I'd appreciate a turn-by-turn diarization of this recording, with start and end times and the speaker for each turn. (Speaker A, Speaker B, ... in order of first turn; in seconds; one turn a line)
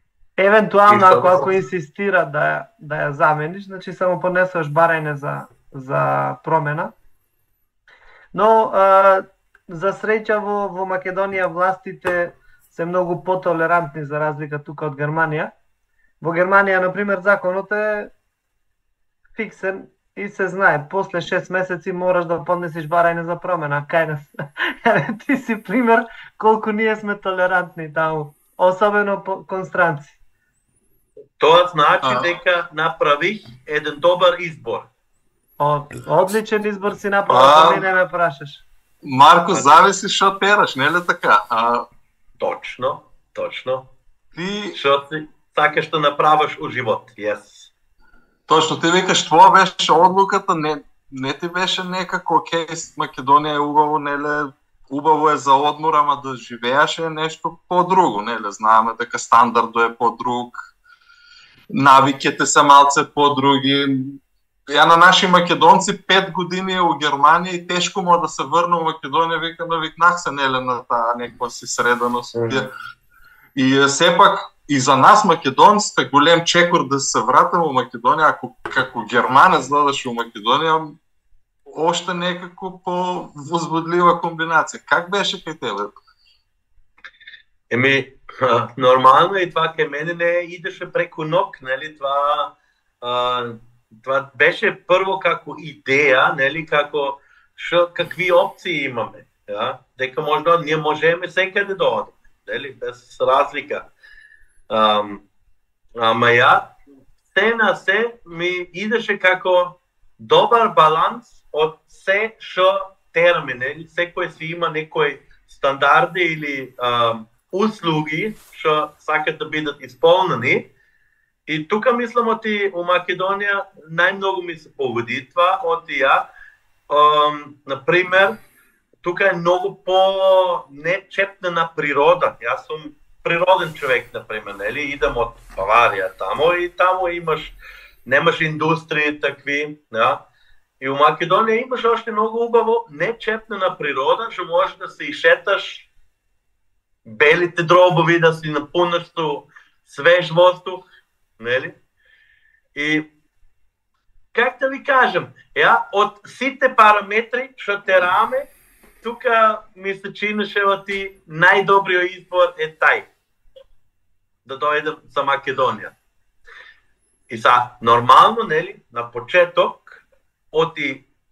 Speaker A: 0.4-6.9
Speaker B: 0.9-1.5
Speaker A: 8.3-15.5
Speaker A: 16.2-18.1
Speaker A: 19.3-30.1
Speaker B: 31.4-34.9
Speaker C: 32.0-32.3
Speaker A: 35.6-38.6
Speaker C: 37.3-37.9
Speaker C: 39.0-41.9
Speaker B: 39.5-39.8
Speaker B: 42.4-43.9
Speaker C: 44.3-44.8
Speaker B: 44.7-47.7
Speaker C: 48.5-60.7
Speaker C: 61.7-72.7
Speaker B: 72.3-72.7
Speaker C: 73.5-81.0
Speaker C: 81.7-86.0
Speaker B: 87.7-103.9
Speaker B: 104.7-105.2
Speaker B: 106.0-106.7
Speaker B: 107.3-120.7
Speaker B: 121.5-126.2
Speaker B: 126.9-128.4
Speaker B: 129.0-137.5
Speaker B: 138.1-140.2
Speaker B: 140.8-145.9
Speaker B: 147.0-150.8
Speaker B: 151.4-151.8
Speaker B: 152.7-153.1
Speaker B: 154.3-158.5
Speaker B: 159.0-163.1
Speaker B: 164.4-165.9
Speaker B: 167.3-171.1